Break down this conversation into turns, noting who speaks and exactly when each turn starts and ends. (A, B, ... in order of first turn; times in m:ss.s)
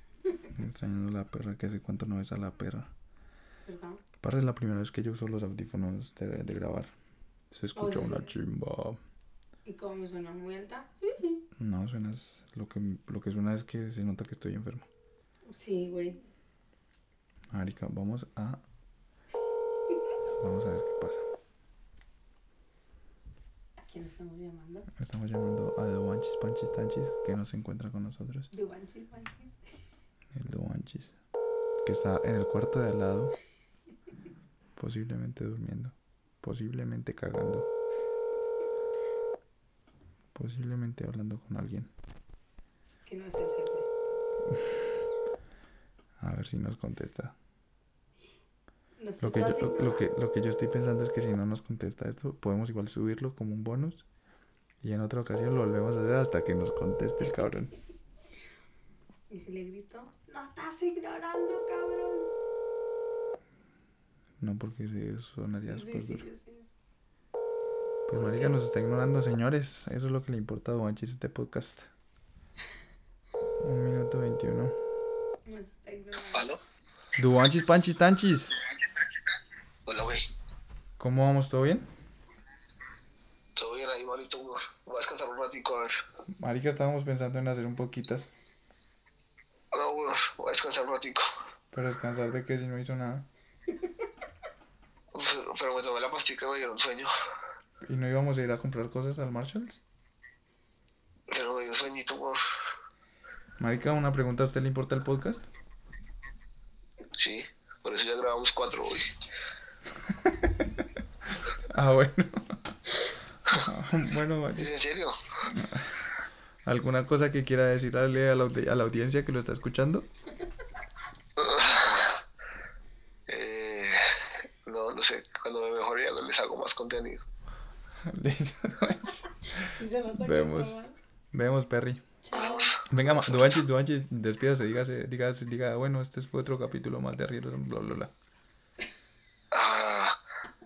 0:00.5-0:02.9 A
0:03.7-0:04.0 B
0:04.2-0:06.9 A
0:07.5-0:09.0 A
0:07.7-0:08.4 B
0:09.6-0:11.4 B
0:11.6-0:14.9 A
0:15.5-0:16.2 B
0:17.5-0:18.6 A
0:20.3-0:21.2 A
0:23.8-0:24.9 B
0:24.9-0:28.5 A
0:28.5-0:29.6 B
0:30.3-0:31.1 A
0:31.8-0:33.3 A
0:34.8-0:37.7 A
0:40.3-0:41.9 A
0:43.0-0:43.9 B
0:46.2-0:47.3 A
0:49.0-0:50.1 B
0:49.2-0:54.0 A
0:54.8-0:57.7 A
0:59.3-1:02.3 B
1:04.4-1:06.3 A
1:05.7-1:06.7 B
1:08.1-1:11.9 A
1:08.1-1:08.6 B
1:13.6-1:14.7 A
1:15.4-1:16.5 B
1:16.3-1:16.6 C
1:17.2-1:18.6 A
1:19.8-1:20.3 C
1:21.0-1:21.9 A
1:23.6-1:25.9 C
1:26.3-1:28.3 A
1:29.7-1:31.3 C
1:31.7-1:33.3 A
1:35.1-1:37.1 C
1:37.8-1:39.8 A
1:41.3-1:42.4 C
1:43.6-1:45.4 A
1:47.2-1:49.1 C
1:51.7-1:52.7 A
1:53.5-1:54.8 A
1:54.6-1:55.2 C
1:55.5-1:55.9 A
1:56.6-2:00.1 A
2:01.4-2:02.2 C
2:03.3-2:07.2 C
2:08.0-2:10.8 A
2:09.6-2:11.0 B
2:11.3-2:12.0 A
2:12.2-2:12.8 B
2:12.3-2:13.6 C
2:12.9-2:18.1 A
2:19.5-2:20.2 C